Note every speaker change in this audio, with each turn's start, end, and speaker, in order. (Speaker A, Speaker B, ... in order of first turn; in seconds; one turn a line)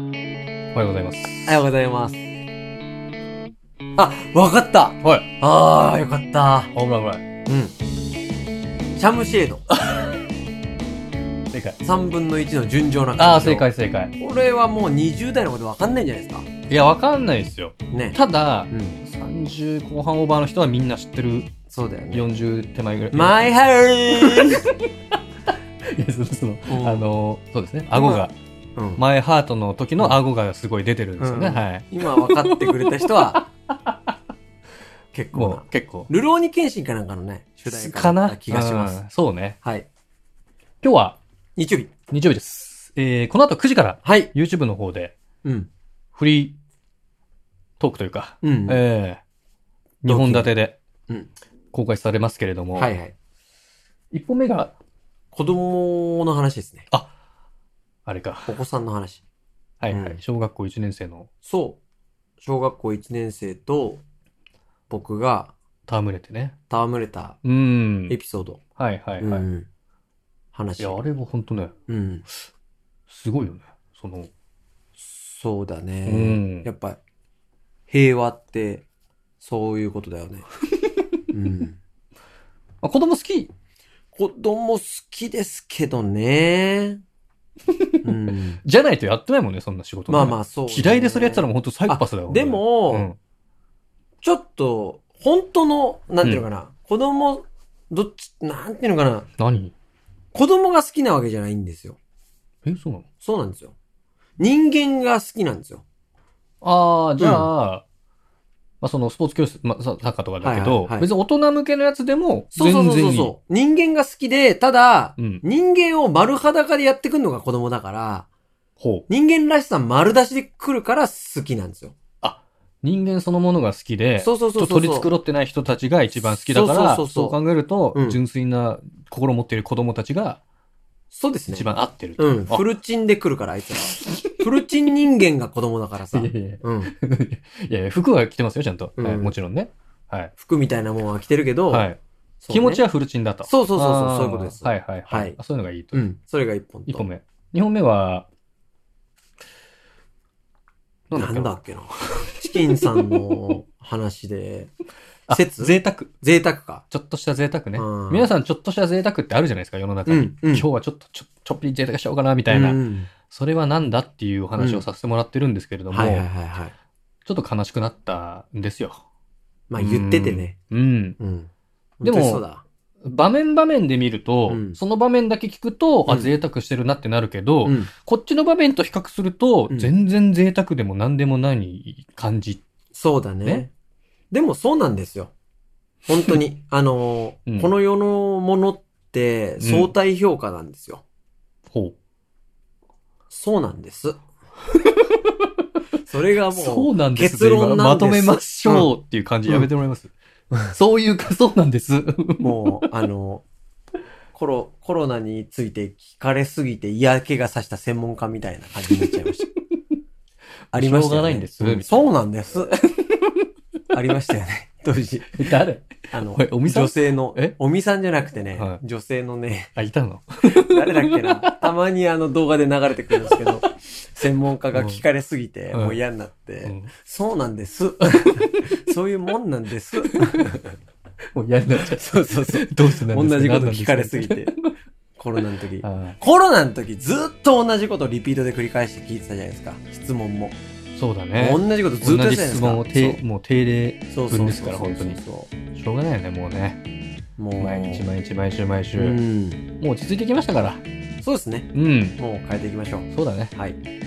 Speaker A: 0.7-1.6
Speaker B: 1.4-2.2
Speaker B: 4.0-6.7
Speaker A: 5.0-5.3
Speaker A: 6.7-7.2
Speaker B: 7.5-7.7
Speaker B: 8.9-9.6
Speaker A: 9.7-10.1
Speaker A: 11.5-11.8
Speaker B: 11.8-16.5
Speaker A: 13.2-14.1
Speaker A: 16.7-21.5
Speaker B: 17.9-18.2
Speaker B: 18.7-19.0
Speaker B: 21.7-22.2
Speaker A: 22.1-23.4
Speaker B: 23.1-24.7
Speaker A: 24.1-24.8
Speaker A: 25.9-28.3
Speaker B: 26.7-27.1
Speaker B: 27.9-29.0
Speaker A: 29.0-34.1
Speaker B: 31.2-33.4
Speaker B: 35.1-39.0
Speaker A: 35.3-36.1
Speaker A: 37.7-39.6
Speaker B: 39.6-39.9
Speaker A: 40.8-41.2
Speaker B: 41.5-41.9
Speaker A: 42.1-45.1
Speaker B: 44.0-44.3
Speaker B: 45.4-45.7
Speaker A: 46.1-46.6
Speaker A: 47.8-49.2
Speaker B: 48.4-48.8
Speaker A: 50.0-50.8
Speaker B: 50.1-50.5
Speaker A: 51.7-52.9
Speaker B: 52.7-53.1
Speaker A: 54.1-54.7
Speaker B: 55.3-56.9
Speaker A: 58.0-58.5
Speaker B: 58.5-59.2
Speaker A: 59.8-61.3
Speaker B: 59.9-60.2
Speaker B: 61.4-61.8
Speaker B: 62.4-64.0
Speaker B: 64.9-65.5
Speaker A: 65.9-66.5
Speaker B: 66.7-67.4
Speaker A: 67.4-68.2
Speaker B: 68.1-68.6
Speaker A: 68.8-69.5
Speaker B: 69.2-69.7
Speaker B: 70.5-71.0
Speaker A: 70.8-71.7
Speaker B: 71.9-72.2
Speaker A: 73.1-74.3
Speaker B: 75.0-77.0
Speaker A: 76.0-76.7
Speaker B: 77.9-78.8
Speaker B: 79.4-80.5
Speaker B: 81.3-81.8
Speaker A: 82.8-83.5
Speaker B: 84.1-87.0
Speaker A: 87.7-93.2
Speaker B: 88.0-88.6
Speaker B: 90.1-93.1
Speaker B: 94.2-99.3
Speaker A: 99.4-99.7
Speaker B: 100.3-102.0
Speaker A: 102.6-103.0
Speaker B: 103.2-103.7
Speaker B: 104.4-105.8
Speaker A: 106.6-107.8
Speaker B: 107.2-107.5
Speaker A: 108.8-113.3
Speaker B: 110.4-111.1
Speaker B: 112.5-118.3
Speaker A: 115.2-115.4
Speaker A: 118.8-119.0
Speaker B: 119.1-122.0
Speaker A: 122.2-130.4
Speaker B: 124.2-125.1
Speaker B: 126.1-127.4
Speaker B: 127.9-128.2
Speaker B: 131.1-136.9
Speaker A: 131.5-132.6
Speaker A: 136.1-140.3
Speaker B: 139.0-139.3
Speaker B: 140.4-141.9
Speaker A: 141.7-142.0
Speaker B: 142.4-142.8
Speaker A: 142.5-146.0
Speaker B: 143.4-145.4
Speaker B: 145.9-147.1
Speaker A: 146.9-148.2
Speaker A: 151.1-152.8
Speaker B: 151.1-154.7
Speaker A: 155.3-156.1
Speaker B: 155.3-156.8
Speaker A: 156.9-166.2
Speaker B: 157.8-158.3
Speaker B: 160.1-160.7
Speaker B: 162.5-163.1
Speaker B: 164.6-164.8
Speaker B: 165.9-166.7
Speaker A: 167.2-169.0
Speaker B: 169.7-170.6
Speaker A: 169.8-171.2
Speaker B: 171.2-172.6
Speaker A: 172.0-172.4
Speaker A: 173.0-182.6
Speaker B: 174.5-174.8
Speaker B: 177.6-177.9
Speaker B: 182.9-183.7
Speaker B: 184.3-185.3
Speaker B: 186.1-191.0
Speaker A: 189.6-189.9
Speaker A: 191.7-191.9
Speaker B: 193.3-194.2
Speaker A: 194.8-195.4
Speaker B: 196.1-198.9
Speaker A: 196.5-200.1
Speaker A: 200.7-202.6
Speaker B: 202.4-203.4
Speaker B: 204.3-209.5
Speaker A: 210.7-212.1
Speaker B: 210.7-212.7
Speaker A: 212.9-213.4
Speaker B: 213.9-215.6
Speaker A: 215.4-217.6
Speaker B: 216.1-219.7
Speaker A: 218.5-218.8
Speaker A: 219.8-221.7
Speaker B: 220.4-230.8
Speaker A: 224.7-225.0
Speaker A: 225.7-226.0
Speaker A: 226.6-226.9
Speaker A: 228.2-228.8
Speaker A: 230.1-230.4
Speaker A: 231.3-234.7
Speaker B: 231.7-234.5
Speaker B: 235.2-240.6
Speaker A: 235.8-236.2
Speaker A: 240.9-245.2
Speaker B: 241.3-243.2
Speaker B: 244.1-245.5
Speaker A: 245.7-246.8
Speaker B: 247.4-248.1
Speaker A: 247.6-249.2
Speaker B: 248.9-249.7
Speaker A: 249.8-250.8
Speaker B: 251.2-253.8
Speaker A: 251.7-252.2
Speaker A: 253.1-253.5